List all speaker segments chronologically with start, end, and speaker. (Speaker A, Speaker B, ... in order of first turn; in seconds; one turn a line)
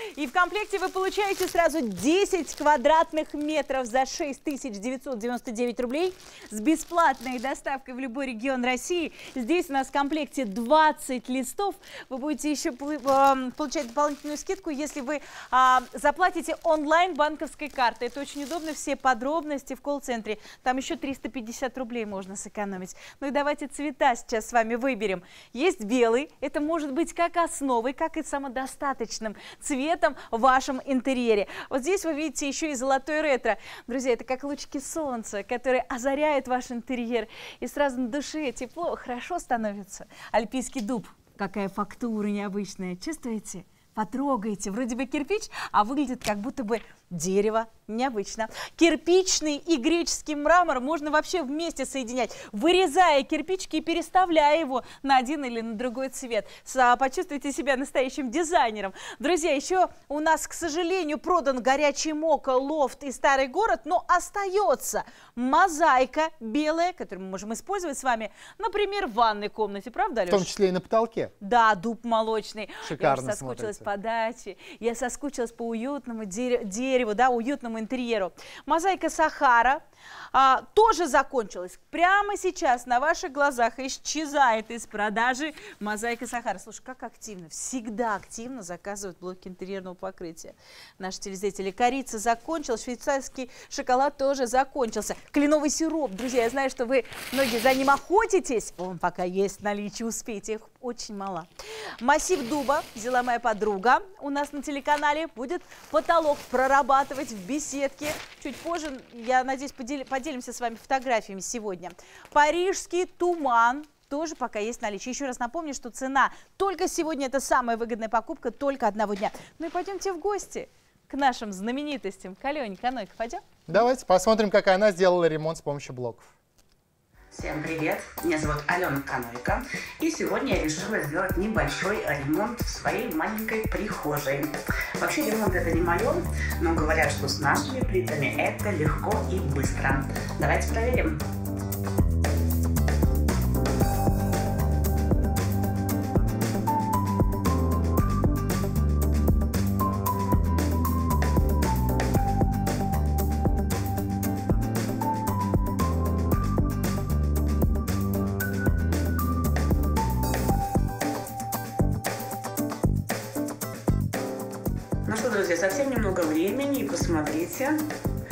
Speaker A: 0.1-70.5
Speaker B: 70.3-71.3
Speaker A: 71.4-79.8
Speaker B: 72.8-73.9
Speaker A: 80.3-101.5
Speaker A: 102.0-123.8
Speaker B: 123.7-126.3
Speaker C: 127.3-141.2
Speaker C: 165.0-167.8